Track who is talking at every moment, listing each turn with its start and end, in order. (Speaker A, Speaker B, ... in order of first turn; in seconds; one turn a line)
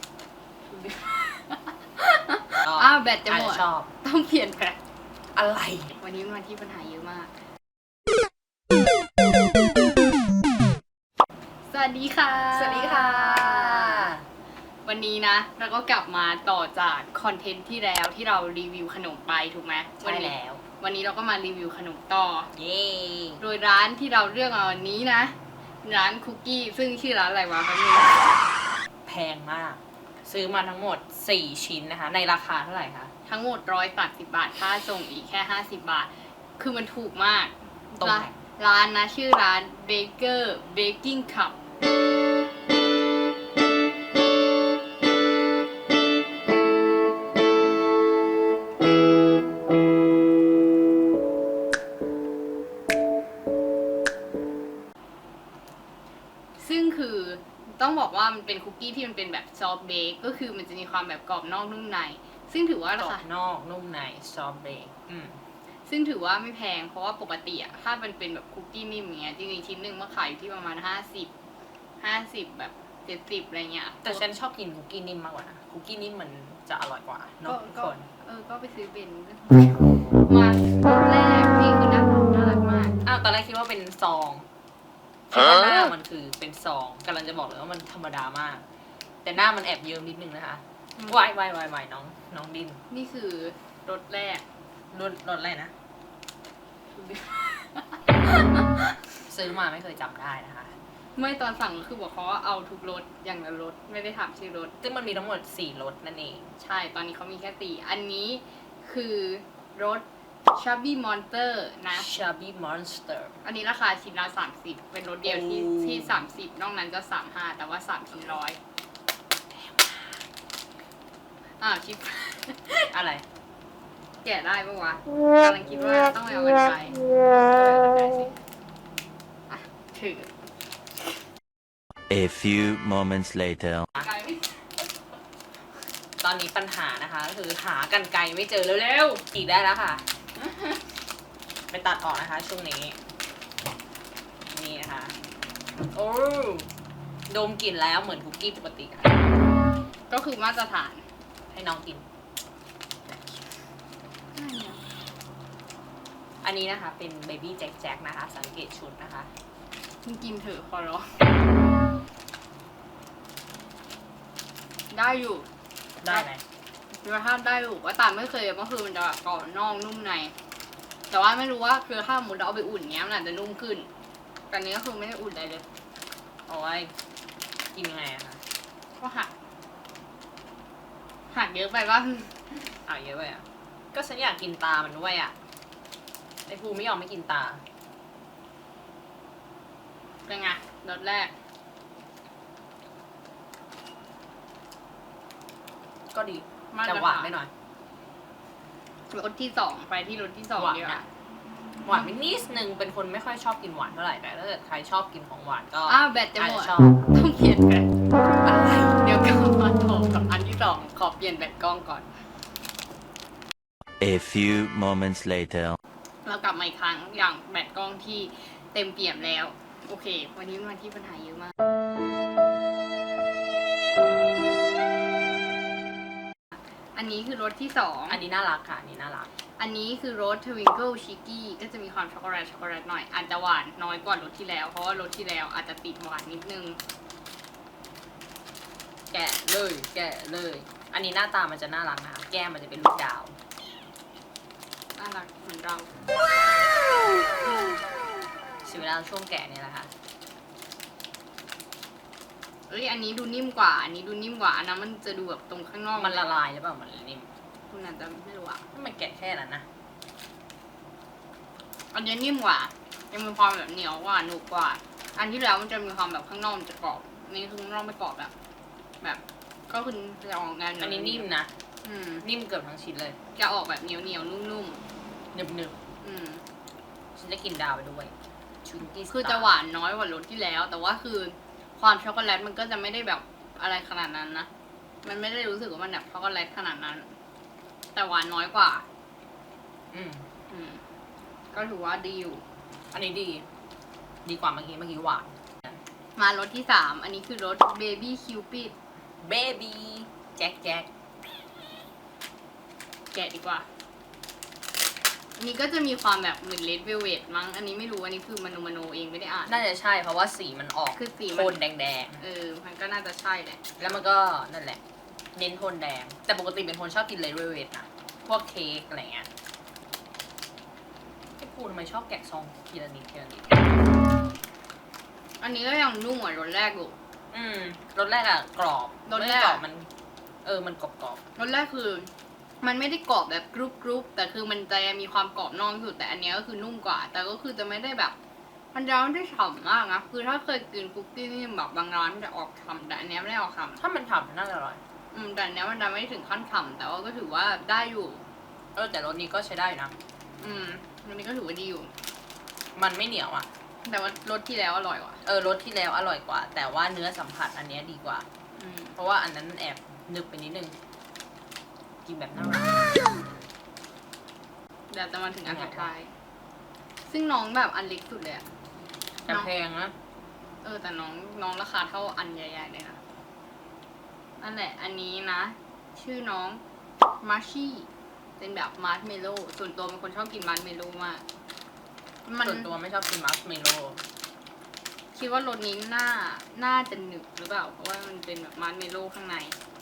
Speaker A: 0.7-4.8
Speaker B: 2.6-3.9
Speaker B: 5.3-6.0
Speaker A: 6.0-7.3
Speaker A: 11.7-14.1
Speaker B: 12.5-14.3
Speaker A: 14.8-22.5
Speaker B: 20.0-20.6
Speaker B: 22.5-23.4
Speaker A: 23.4-28.3
Speaker B: 29.1-33.1
Speaker A: 33.3-41.6
Speaker B: 38.0-38.4
Speaker A: 56.6-63.2
Speaker B: 63.0-65.4
Speaker A: 65.9-71.3
Speaker A: 72.0-74.2
Speaker B: 74.0-78.1
Speaker A: 77.5-83.0
Speaker B: 83.0-84.5
Speaker B: 85.3-88.6
Speaker B: 89.2-92.8
Speaker A: 92.9-94.4
Speaker B: 94.9-95.7
Speaker A: 97.0-99.0
Speaker B: 99.3-100.8
Speaker A: 101.2-104.7
Speaker B: 104.8-106.5
Speaker A: 106.6-112.1
Speaker B: 111.9-113.3
Speaker A: 113.4-118.6
Speaker B: 115.2-116.2
Speaker B: 119.5-120.2
Speaker A: 121.6-122.9
Speaker B: 122.9-123.2
Speaker A: 124.2-128.3
Speaker A: 129.5-130.3
Speaker C: 132.1-133.9
Speaker A: 134.0-134.6
Speaker B: 136.2-140.1
Speaker B: 141.7-143.0
Speaker B: 144.5-145.1
Speaker B: 145.9-146.7
Speaker B: 147.3-149.2
Speaker A: 150.1-151.0
Speaker B: 151.5-152.0
Speaker A: 154.3-154.8
Speaker B: 156.4-159.3
Speaker A: 160.1-161.3
Speaker A: 164.9-165.5
Speaker B: 166.0-166.4
Speaker A: 166.9-170.3
Speaker A: 171.1-173.9
Speaker A: 174.5-175.6
Speaker B: 176.5-176.9
Speaker B: 177.7-178.4
Speaker A: 179.0-179.3
Speaker A: 181.3-182.4
Speaker B: 182.8-185.3
Speaker B: 186.5-187.6
Speaker A: 190.3-191.3
Speaker B: 196.1-197.5
Speaker A: 196.7-197.3
Speaker A: 199.1-201.0
Speaker B: 200.6-201.1
Speaker B: 201.8-207.0
Speaker A: 205.9-207.9
Speaker B: 208.4-209.0
Speaker A: 209.0-212.1
Speaker C: 214.0-215.8
Speaker A: 216.2-221.5
Speaker A: 226.9-228.2
Speaker B: 228.1-229.3
Speaker A: 229.6-236.8
Speaker B: 239.1-243.4
Speaker A: 245.0-245.9
Speaker B: 248.6-249.9
Speaker A: 252.7-256.2
Speaker B: 256.0-257.3
Speaker A: 257.7-258.6
Speaker B: 258.7-259.7
Speaker A: 261.9-268.3
Speaker A: 269.0-271.3
Speaker B: 270.8-271.5
Speaker A: 271.8-272.2
Speaker B: 272.2-273.2
Speaker A: 273.4-274.8
Speaker B: 275.3-275.8
Speaker A: 276.0-276.4
Speaker B: 277.1-278.1
Speaker B: 278.6-279.5
Speaker A: 279.1-284.5
Speaker A: 285.0-287.1
Speaker A: 287.9-288.9
Speaker B: 289.9-290.3
Speaker A: 290.5-290.8
Speaker A: 291.5-292.4
Speaker B: 292.9-293.4
Speaker B: 294.2-295.8
Speaker A: 296.2-298.7
Speaker B: 299.2-300.9
Speaker A: 303.1-303.6
Speaker A: 305.4-309.6
Speaker B: 309.5-312.2
Speaker A: 310.9-311.6
Speaker A: 312.2-313.6
Speaker B: 313.8-314.8
Speaker B: 315.4-319.3
Speaker B: 321.4-323.6
Speaker A: 325.4-326.9
Speaker B: 327.3-329.9
Speaker A: 329.1-329.6
Speaker B: 330.4-331.2
Speaker A: 331.4-338.1
Speaker A: 338.7-343.8
Speaker B: 343.8-344.8
Speaker A: 345.1-348.2
Speaker B: 348.8-349.9
Speaker A: 350.4-351.9
Speaker B: 352.8-353.5
Speaker A: 353.9-355.2
Speaker B: 355.2-358.3
Speaker A: 358.6-358.9
Speaker B: 359.0-360.7
Speaker B: 362.1-363.0
Speaker A: 364.9-366.1
Speaker B: 365.5-365.9
Speaker A: 367.1-368.5
Speaker B: 369.2-369.9
Speaker A: 370.6-373.0
Speaker A: 374.4-376.6
Speaker A: 377.2-377.9
Speaker A: 378.4-381.2
Speaker A: 382.3-382.7
Speaker B: 382.4-384.0
Speaker A: 385.1-389.6